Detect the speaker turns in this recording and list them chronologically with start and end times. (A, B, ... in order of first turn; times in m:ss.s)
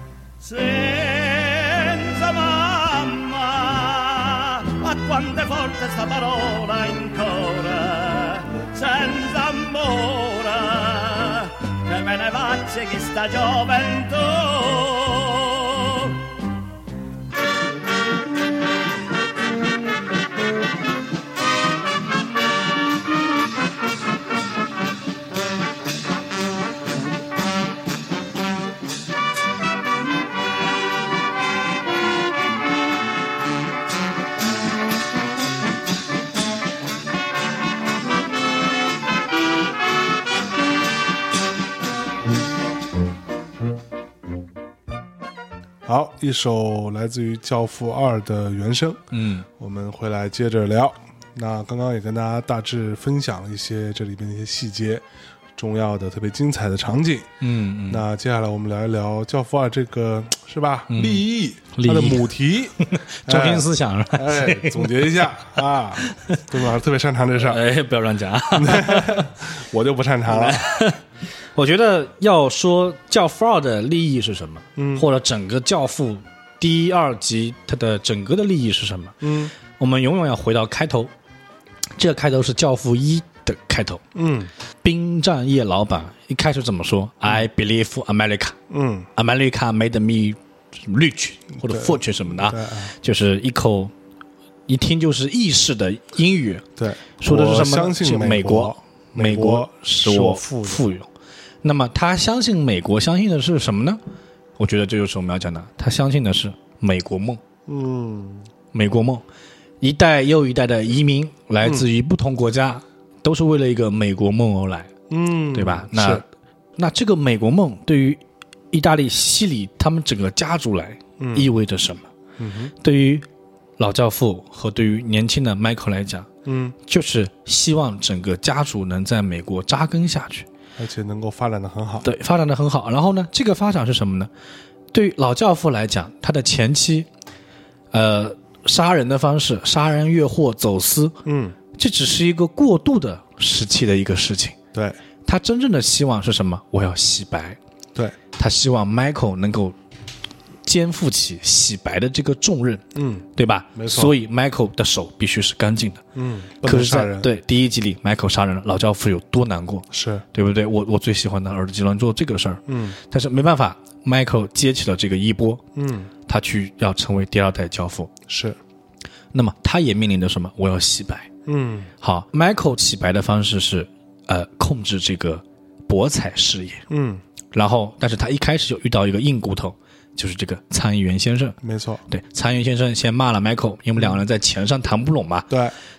0:00.4-0:16.3 A
0:45.8-0:49.0 B
0:49.1-0:49.4 C
0:49.5-0:55.0 B
0:55.6-0:57.3 B
0:57.4-0:58.0 C
0:57.9-1:07.6 B
1:00.9-1:05.4 C
1:06.0-1:06.4 C
1:07.4-1:09.3 C
1:08.5-1:10.6 B
1:10.3-1:11.0 C
1:11.5-1:21.1 C
1:14.8-1:15.0 B
1:19.2-1:19.5 B
1:22.0-1:24.0 C
1:24.1-1:24.5 B
1:24.8-1:28.6 C
1:28.7-1:29.1 B
1:29.2-1:33.9 C
1:31.6-1:32.9 B
1:34.7-1:36.6 C
1:36.8-1:40.8 B
1:37.2-1:41.1 C
1:41.6-1:44.0 C
1:44.6-1:47.4 C
1:47.7-1:48.5 B
1:48.7-1:49.2 C
1:49.8-1:54.9 C
1:55.1-1:56.2 B
1:55.5-1:56.2 C
1:56.8-1:58.2 C
1:58.7-2:02.1 C
2:01.2-2:01.5 B
2:02.4-2:02.7 B
2:02.8-2:03.2 C
2:03.8-2:06.3 C
2:06.4-2:06.8 B
2:06.8-2:10.5 C
2:10.8-2:12.1 B
2:12.0-2:14.3 C
2:14.9-2:17.1 C
2:17.9-2:21.1 C
2:21.2-2:21.6 B
2:21.7-2:24.6 C
2:24.7-2:25.0 B
2:25.2-2:27.6 C
2:28.3-2:29.8 C
2:30.6-2:36.0 C
2:32.9-2:34.1 B
2:36.1-2:37.3 B
2:36.6-2:45.6 C
2:39.9-2:40.2 B
2:42.7-2:43.0 B
2:45.7-2:46.1 B
2:46.3-2:48.1 C
2:48.3-2:48.6 B
2:49.3-2:51.3 C
2:51.4-2:51.9 B
2:52.0-2:56.8 C
2:56.9-2:57.2 B
2:57.5-3:05.5 C
3:01.6-3:02.0 B
3:05.5-3:05.7 B